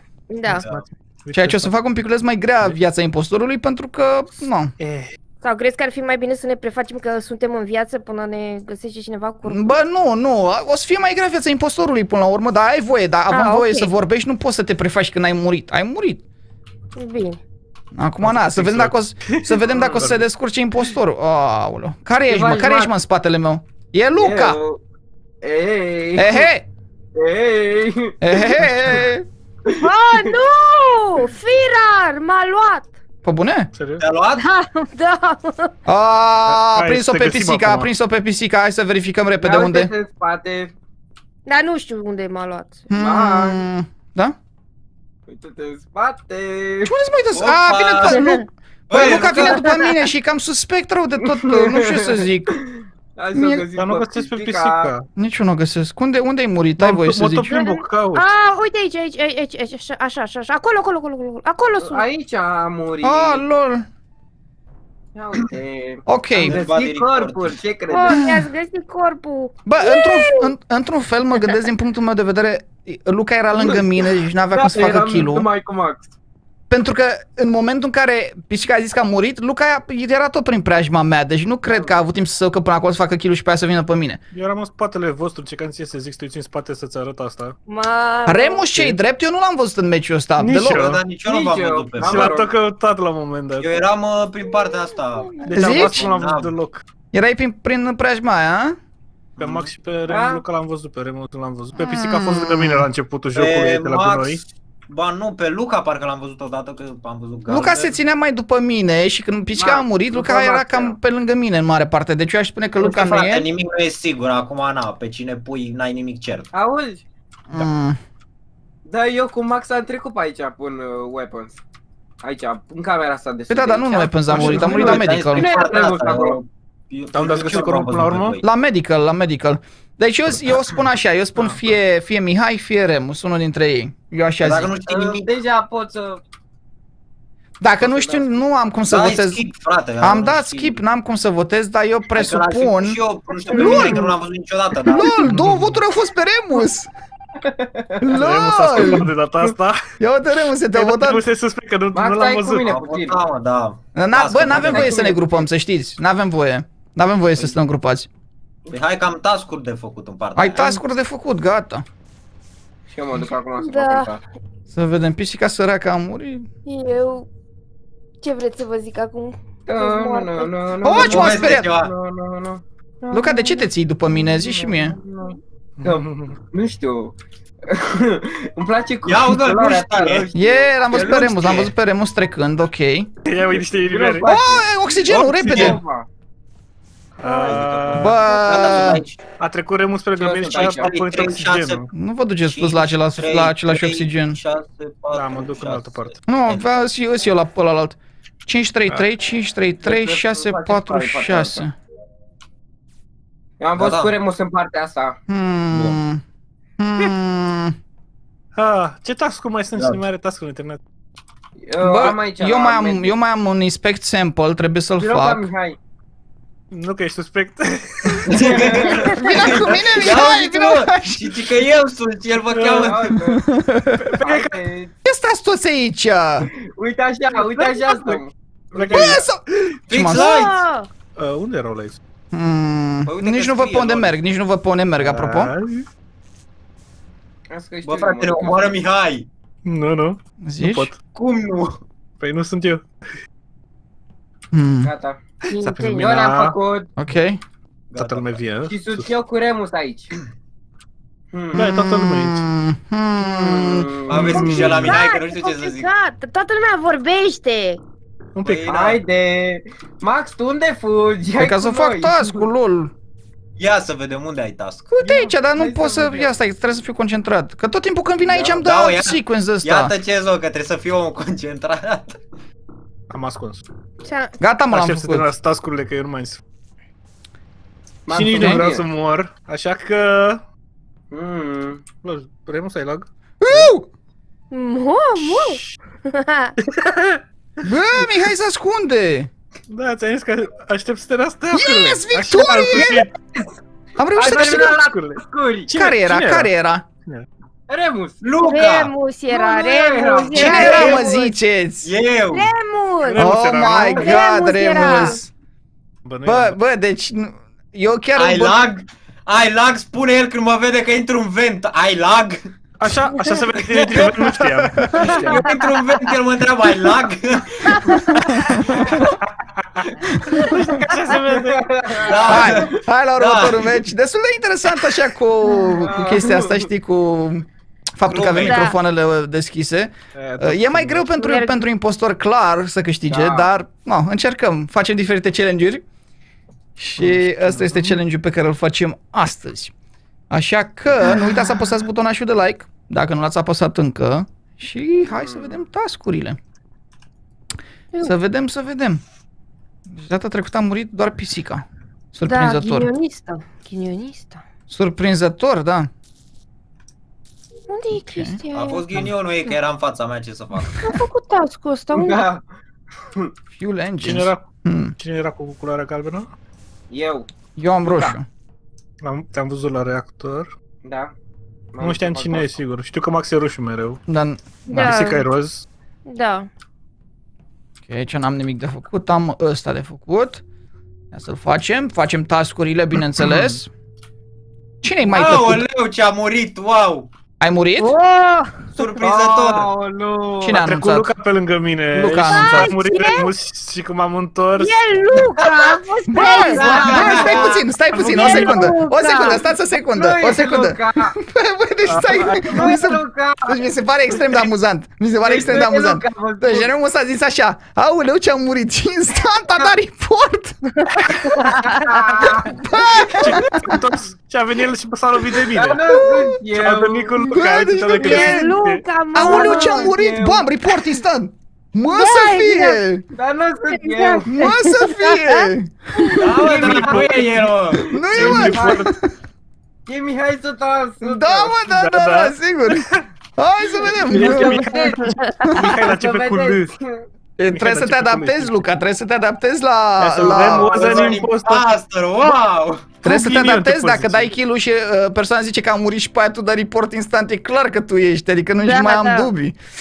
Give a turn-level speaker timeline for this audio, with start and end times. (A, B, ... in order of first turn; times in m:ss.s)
0:00.3-0:00.6 A
0:00.5-0:01.7 B
0:01.3-0:04.7 C
0:04.8-0:05.1 B
0:05.4-0:09.8 A
0:09.4-0:16.2 C
0:13.3-0:13.9 A
0:17.0-0:17.4 A
0:17.9-0:24.6 C
0:18.2-0:20.2 B
0:19.6-0:20.1 D
0:22.3-0:22.9 D
0:24.2-0:24.8 D
0:25.4-0:26.5 D
0:26.2-0:26.6 C
0:27.1-0:28.6 D
0:28.2-0:29.2 C
0:28.6-0:29.0 B
0:29.8-0:32.9 A
0:33.2-0:33.7 C
0:33.7-0:34.0 B
0:34.0-0:34.4 E
0:34.4-0:35.7 A
0:35.8-0:39.9 C
0:36.5-0:37.9 B
0:39.4-0:40.7 D
0:41.4-0:42.9 A
0:42.9-0:44.3 C
0:43.0-0:43.6 D
0:45.3-0:46.9 D
0:46.8-0:52.5 C
0:47.3-0:48.2 E
0:48.0-0:48.4 A
0:48.9-0:49.6 E
0:49.4-0:49.9 A
0:51.4-0:54.9 D
0:53.3-0:53.6 C
0:53.8-0:55.1 B
0:55.2-0:57.5 C
0:56.8-0:58.3 B
0:57.5-1:02.0 A
1:01.8-1:03.4 D
1:03.0-1:03.8 C
1:05.1-1:08.2 D
1:06.1-1:06.6 C
1:06.3-1:07.6 E
1:07.9-1:10.5 A
1:09.6-1:15.5 C
1:13.5-1:16.1 D
1:16.7-1:24.2 C
1:21.6-1:21.9 D
1:24.3-1:27.6 B
1:27.7-1:28.6 A
1:28.3-1:30.9 C
1:30.4-1:31.0 B
1:30.7-1:32.4 E
1:31.2-1:32.5 D
1:32.0-1:33.8 B
1:33.6-1:36.5 E
1:34.5-1:35.4 A
1:35.4-1:36.8 B
1:35.5-1:36.0 C
1:37.1-1:38.8 C
1:39.4-1:39.7 E
1:39.4-1:44.4 B
1:40.1-1:40.4 D
1:41.7-1:42.8 C
1:43.3-1:48.0 E
1:47.5-1:53.4 C
1:49.5-1:51.0 D
1:52.8-1:56.5 E
1:56.5-1:57.0 D
1:57.5-1:58.0 C
1:58.8-2:01.6 D
2:02.2-2:06.4 D
2:03.5-2:05.5 C
2:04.3-2:05.0 B
2:04.3-2:08.4 E
2:07.1-2:08.4 B
2:08.4-2:14.7 C
2:14.4-2:15.3 E
2:14.9-2:16.2 D
2:17.6-2:19.4 C
2:17.8-2:18.3 D
2:18.8-2:20.8 E
2:20.0-2:23.0 C
2:22.1-2:25.0 E
2:23.4-2:24.1 D
2:23.5-2:24.1 C
2:24.9-2:26.9 C
2:25.2-2:25.8 B
2:27.4-2:28.0 D
2:28.0-2:29.1 C
2:28.1-2:29.8 B
2:30.0-2:31.2 C
2:30.7-2:32.7 B
2:31.9-2:33.2 D
2:32.7-2:34.9 E
2:33.9-2:38.1 C
2:34.4-2:35.5 D
2:38.7-2:40.8 E
2:40.4-2:41.8 C
2:42.9-2:44.2 D
2:43.2-2:44.2 A
2:44.7-2:46.5 C
2:46.6-2:47.3 A
2:48.2-2:51.3 A
2:49.7-2:57.1 D
2:50.8-2:51.7 C
2:51.0-2:51.9 E
2:53.1-2:55.0 C
2:55.8-2:56.4 B
2:57.7-3:01.0 D
2:59.0-3:00.3 E
3:00.3-3:03.1 C
3:00.9-3:01.7 E
3:03.2-3:04.3 B
3:03.6-3:06.1 D
3:04.2-3:05.8 C
3:05.1-3:05.4 B
3:05.3-3:05.7 E
3:07.2-3:08.2 B
3:07.4-3:09.2 E
3:08.0-3:09.0 C
3:09.4-3:11.9 B
3:10.2-3:10.9 D
3:10.6-3:11.8 E
3:11.9-3:14.4 C
3:12.4-3:16.6 E
3:15.1-3:16.2 B
3:16.3-3:21.7 C
3:19.8-3:21.6 D
3:23.6-3:25.2 D
3:23.8-3:24.1 E
3:25.3-3:26.2 C
3:25.7-3:26.0 E
3:26.8-3:27.7 C
3:28.5-3:30.8 B
3:31.6-3:33.1 D
3:31.8-3:35.4 C
3:35.0-3:35.8 D
3:36.7-3:38.3 B
3:38.3-3:43.0 E
3:38.4-3:39.2 D
3:39.1-3:41.3 C
3:42.5-3:42.9 B
3:42.8-3:43.4 D
3:43.2-3:44.0 C
3:44.0-3:44.9 D
3:44.1-3:44.6 B
3:45.0-3:46.5 C
3:46.6-3:49.2 D
3:47.3-3:48.2 B
3:48.7-3:49.2 B
3:48.9-3:50.3 C
3:49.9-3:50.6 E
3:50.1-3:50.9 A
3:51.2-3:52.0 B
3:52.3-3:55.5 C
3:53.1-3:54.2 E
3:55.0-3:55.9 B
3:57.5-3:58.8 D
3:57.8-3:59.3 E
3:59.6-4:01.0 B
4:00.4-4:00.9 C
4:01.1-4:01.8 E
4:02.2-4:02.9 B
4:04.5-4:04.9 C
4:04.8-4:05.2 D
4:05.5-4:06.6 B
4:05.5-4:06.1 A
4:06.0-4:06.9 D
4:07.0-4:07.4 C
4:07.9-4:08.4 E
4:08.0-4:09.1 B
4:08.7-4:10.1 D
4:11.3-4:11.6 D
4:11.5-4:12.5 B
4:11.5-4:13.9 C
4:13.2-4:14.8 D
4:14.1-4:15.9 E
4:14.1-4:15.0 B
4:14.7-4:17.8 A
4:18.3-4:18.7 B
4:18.4-4:19.0 E
4:18.7-4:22.5 D
4:21.4-4:22.9 C
4:23.6-4:24.9 E
4:24.9-4:29.9 C
4:25.0-4:26.3 D
4:28.2-4:28.6 D
4:28.6-4:32.2 E
4:33.1-4:33.6 B
4:34.0-4:34.4 A
4:34.4-4:35.3 C
4:34.7-4:36.4 B
4:38.1-4:38.9 D
4:38.1-4:40.4 B
4:38.3-4:38.6 C
4:41.1-4:41.8 D
4:42.0-4:43.7 B
4:43.4-4:43.9 C
4:44.5-4:46.5 A
4:45.2-4:45.6 B
4:46.6-4:47.2 B
4:47.6-4:49.3 C
4:49.7-4:53.1 B
4:51.5-4:53.0 C
4:52.7-4:53.5 D
4:54.0-4:54.6 C
4:54.2-4:55.7 D
4:54.2-4:56.5 B
4:55.7-4:56.8 C
4:57.7-4:58.2 D
4:58.2-4:58.9 E
4:58.5-5:01.4 A
4:59.3-5:00.9 D
5:00.3-5:01.0 E
5:00.3-5:01.9 C
5:01.8-5:02.5 E
5:02.3-5:03.2 A
5:03.0-5:04.1 B
5:03.2-5:05.3 C
5:03.9-5:05.2 A
5:04.8-5:05.1 B
5:06.0-5:06.6 B
5:06.2-5:08.6 C
5:08.1-5:12.4 E
5:12.8-5:15.4 B
5:13.5-5:14.1 E
5:15.0-5:15.4 D
5:15.2-5:17.7 E
5:17.7-5:18.1 A
5:19.4-5:22.2 B
5:21.3-5:22.1 D
5:22.0-5:23.7 E
5:22.3-5:27.4 C
5:25.7-5:26.7 D
5:28.0-5:35.8 C
5:28.0-5:28.7 E
5:28.4-5:28.8 A
5:30.1-5:31.1 B
5:31.2-5:31.6 A
5:33.1-5:33.5 D
5:36.8-5:39.7 C
5:37.0-5:38.0 B
5:40.3-5:46.4 C
5:45.0-5:45.6 D
5:48.0-5:49.0 C
5:49.9-5:52.9 C
5:52.2-5:54.4 A
5:54.7-5:55.9 C
5:57.7-5:58.8 A
5:58.0-5:58.4 C
5:58.5-6:00.8 E
6:00.8-6:02.2 A
6:01.9-6:02.4 D
6:03.6-6:04.9 C
6:04.0-6:04.4 B
6:05.0-6:06.3 B
6:06.9-6:07.3 D
6:07.6-6:08.3 C
6:07.8-6:08.1 D
6:09.0-6:10.5 B
6:10.8-6:11.1 D
6:11.7-6:12.6 D
6:11.8-6:14.0 B
6:14.1-6:14.9 C
6:14.7-6:15.2 A
6:14.7-6:15.6 B
6:16.0-6:16.5 A
6:17.9-6:20.4 C
6:21.1-6:23.7 C
6:23.2-6:23.6 B
6:24.8-6:25.6 C
6:25.0-6:27.1 E
6:27.4-6:27.9 C
6:27.8-6:28.6 A
6:28.7-6:29.7 E
6:29.0-6:30.6 D
6:30.4-6:31.1 C
6:30.5-6:34.7 B
6:31.9-6:32.7 C
6:32.2-6:33.3 A
6:34.6-6:37.5 A
6:35.4-6:37.6 E
6:36.1-6:51.1 C
6:36.6-6:37.5 D
6:37.9-6:38.7 B
6:38.1-6:39.4 A
6:39.2-6:41.2 D
6:41.8-6:42.5 B
6:42.0-6:43.6 D
6:44.1-6:44.4 D
6:45.2-6:46.7 D
6:50.8-6:51.8 A
6:51.6-6:52.8 D
6:52.5-6:53.8 C
6:53.1-6:55.8 B
6:55.5-6:57.2 D
6:55.9-6:56.4 C
6:56.5-6:58.8 B
6:57.2-6:58.5 C
6:57.9-6:59.9 A
6:59.1-7:03.0 C
6:59.2-7:00.5 D
7:01.9-7:02.8 A
7:03.1-7:04.5 D
7:03.7-7:05.5 A
7:04.3-7:05.7 C
7:06.0-7:06.6 A
7:06.0-7:08.9 D
7:06.2-7:07.8 E
7:06.6-7:06.9 B
7:07.9-7:09.1 C
7:08.1-7:08.9 B
7:09.8-7:11.6 D
7:11.0-7:12.8 C
7:11.7-7:13.1 B
7:13.4-7:14.6 C
7:13.9-7:16.7 B
7:14.1-7:15.0 D
7:14.3-7:15.6 A
7:15.6-7:17.0 D
7:17.4-7:21.0 C
7:17.5-7:18.6 B
7:20.0-7:21.6 B
7:20.4-7:22.9 E
7:23.0-7:24.3 B
7:23.0-7:29.6 C
7:28.6-7:29.3 A